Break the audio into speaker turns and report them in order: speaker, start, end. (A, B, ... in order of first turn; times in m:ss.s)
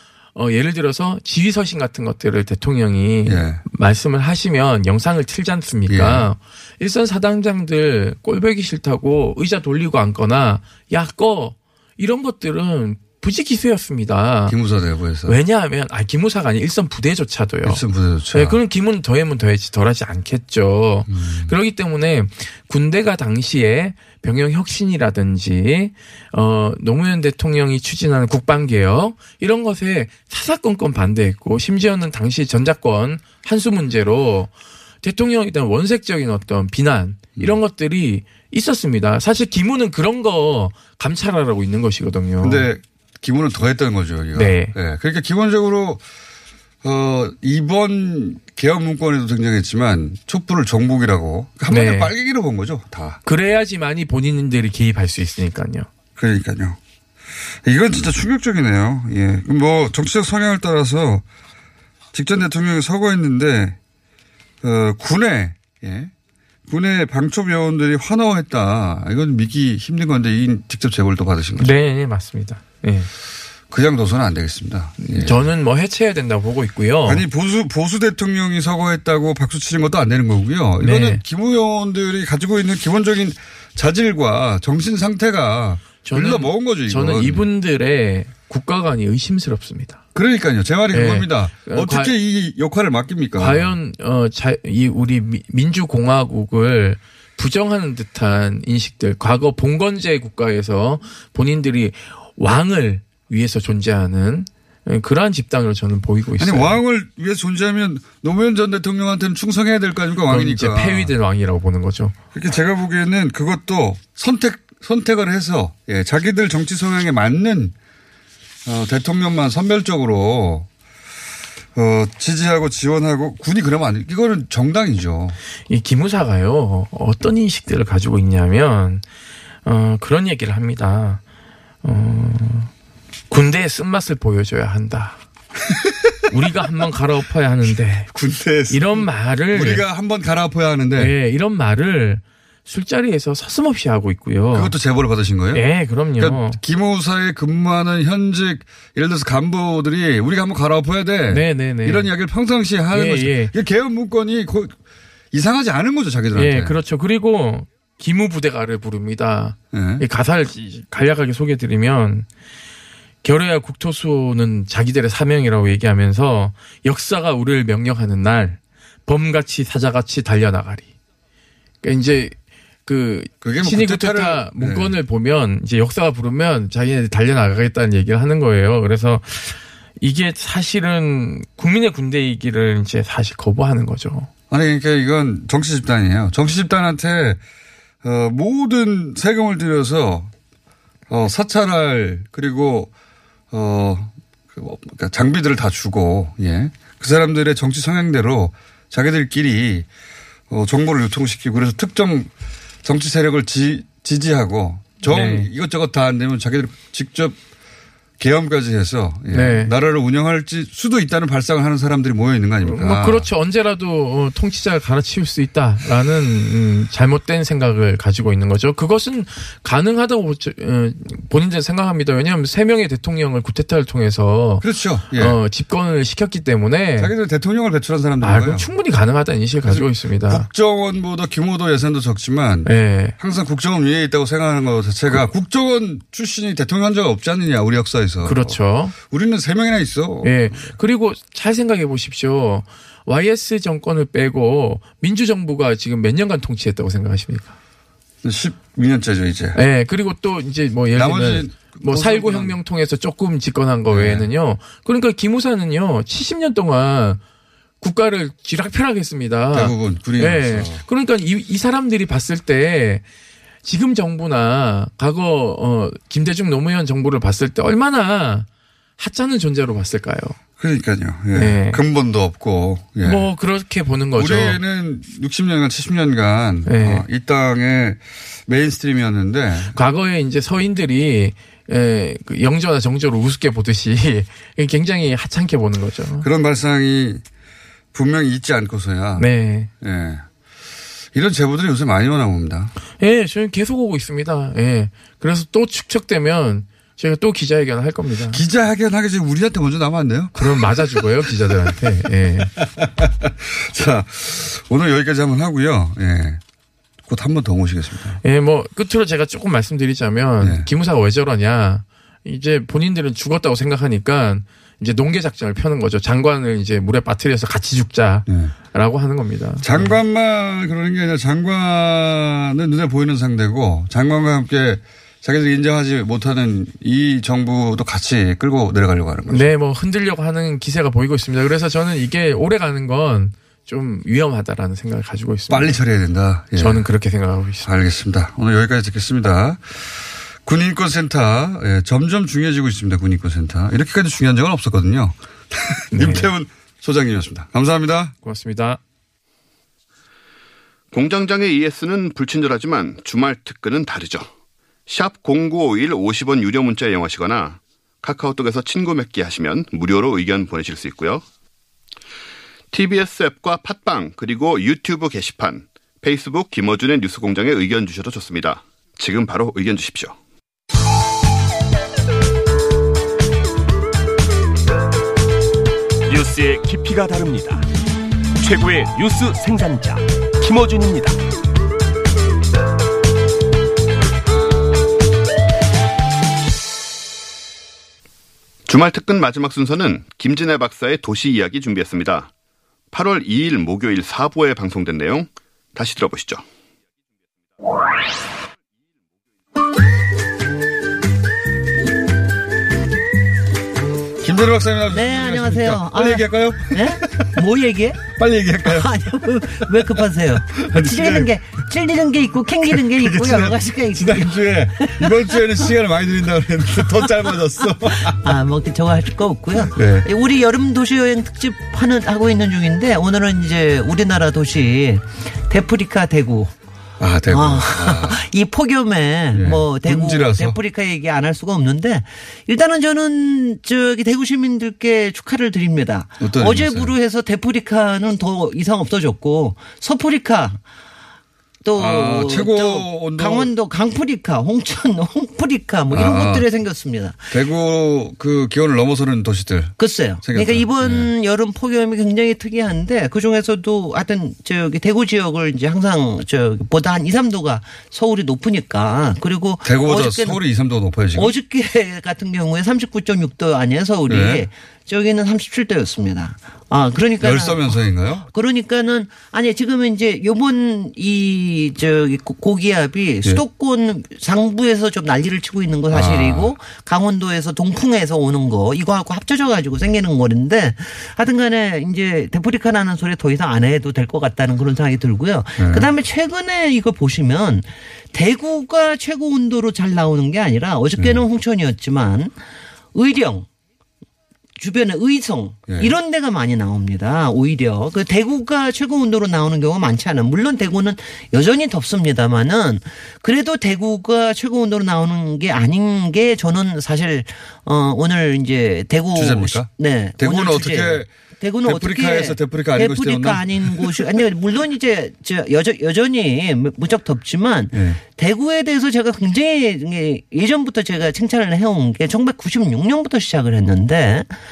0:00.4-0:14.6 A
0:03.2-0:03.6 B
0:05.9-0:06.3 B
0:14.5-0:15.4 B
0:15.2-0:17.8 A
0:17.6-0:18.6 B
0:18.3-0:34.5 A
0:21.1-0:21.5 B
0:35.0-0:42.6 A
0:42.4-0:46.0 B
0:44.4-0:44.7 A
0:46.8-0:53.2 B
0:51.7-0:52.1 A
0:53.2-0:55.9 A
0:56.2-0:56.8 B
0:57.6-1:01.2 B
1:02.1-1:03.8 B
1:04.6-1:06.1 B
1:06.7-1:11.7 B
1:11.6-1:13.1 A
1:13.7-1:15.5 B
1:15.1-1:17.2 A
1:17.0-1:27.4 B
1:20.8-1:21.2 A
1:26.0-1:30.0 A
1:30.1-1:33.7 B
1:30.9-1:32.1 A
1:33.4-1:46.8 A
1:46.4-1:51.1 B
1:50.3-1:52.1 A
1:52.3-1:57.7 B
1:58.6-2:00.7 B
2:01.7-2:05.4 B
2:05.7-2:09.0 A
2:09.6-2:11.2 A
2:11.8-2:12.7 A
2:13.3-2:15.2 A
2:16.3-2:18.1 A
2:18.1-2:21.1 B
2:18.7-2:19.8 A
2:21.0-2:24.7 A
2:24.5-2:25.6 B
2:25.5-2:26.6 A
2:26.2-2:34.8 B
2:31.3-2:32.1 A
2:32.9-2:33.5 A
2:35.3-2:36.8 B
2:36.3-2:42.3 A
2:39.7-2:40.1 B
2:43.2-2:50.9 A
2:51.8-3:04.3 A
2:53.4-2:55.0 B
3:04.5-3:07.4 B
3:08.0-3:10.3 B
3:11.1-3:12.9 B
3:13.5-3:19.9 B
3:20.5-3:22.3 B
3:22.8-3:27.4 B
3:25.0-3:25.5 A
3:28.2-3:33.3 B
3:29.3-3:29.7 A
3:32.6-3:47.1 A
3:44.6-3:45.4 B
3:47.0-3:48.7 B
3:48.2-3:50.5 A
3:49.6-4:00.7 B
3:52.6-3:53.2 A
3:58.2-3:58.9 A
4:00.2-4:07.5 A
4:08.2-4:09.6 B
4:09.6-4:17.2 A
4:10.9-4:12.6 B
4:13.9-4:14.3 B
4:17.8-4:23.0 A
4:19.5-4:20.8 B
4:23.6-4:28.5 A
4:29.0-4:30.4 A
4:30.6-4:33.3 B
4:31.3-4:31.8 A
4:33.0-4:34.6 A
4:34.1-4:39.7 B
4:36.6-4:37.0 A
4:39.7-4:46.3 A
4:46.2-4:47.2 B
4:47.9-4:49.3 B
4:49.2-4:49.7 A
4:49.8-4:50.2 B
4:51.1-4:52.7 B
4:53.0-4:58.4 A
4:58.3-5:01.8 B
5:00.4-5:02.5 A
5:02.6-5:06.4 B
5:07.1-5:08.2 B
5:08.2-5:19.9 A
5:10.4-5:10.7 B
5:18.3-5:18.5 B
5:19.6-5:29.5 B
5:29.3-5:35.8 A
5:35.5-5:36.8 B
5:36.5-5:37.7 A
5:37.6-5:48.1 B
5:45.9-5:46.3 A
5:48.2-5:48.8 A
5:50.9-5:54.3 C
5:54.9-6:01.2 C
6:02.7-6:10.2 C
6:16.1-6:17.6 D
6:18.4-6:21.2 D
6:28.7-6:32.3 C
6:32.9-6:36.4 C
6:44.2-6:47.4 B
6:44.9-6:48.1 E
6:48.0-6:49.8 B
6:48.6-6:55.4 E
6:50.5-6:51.3 B
6:52.6-6:58.3 B
6:57.9-7:06.5 E
6:59.6-7:00.1 B
7:07.0-7:08.2 B
7:07.3-7:20.6 E
7:09.3-7:10.6 B
7:16.2-7:16.9 B
7:21.6-7:27.3 E
7:21.8-7:23.5 B
7:25.9-7:26.4 B
7:27.3-7:31.1 B
7:29.8-7:40.4 E
7:39.6-7:41.3 B
7:41.1-8:12.3 E
7:44.1-7:44.5 B
7:47.2-7:48.2 B
7:55.9-7:56.5 B
8:05.6-8:05.9 B
8:11.0-8:11.2 B
8:12.9-8:13.5 E
8:14.6-8:44.3 E
8:15.7-8:15.9 B
8:29.1-8:31.1 B
8:31.6-8:34.1 B
8:37.7-8:38.0 B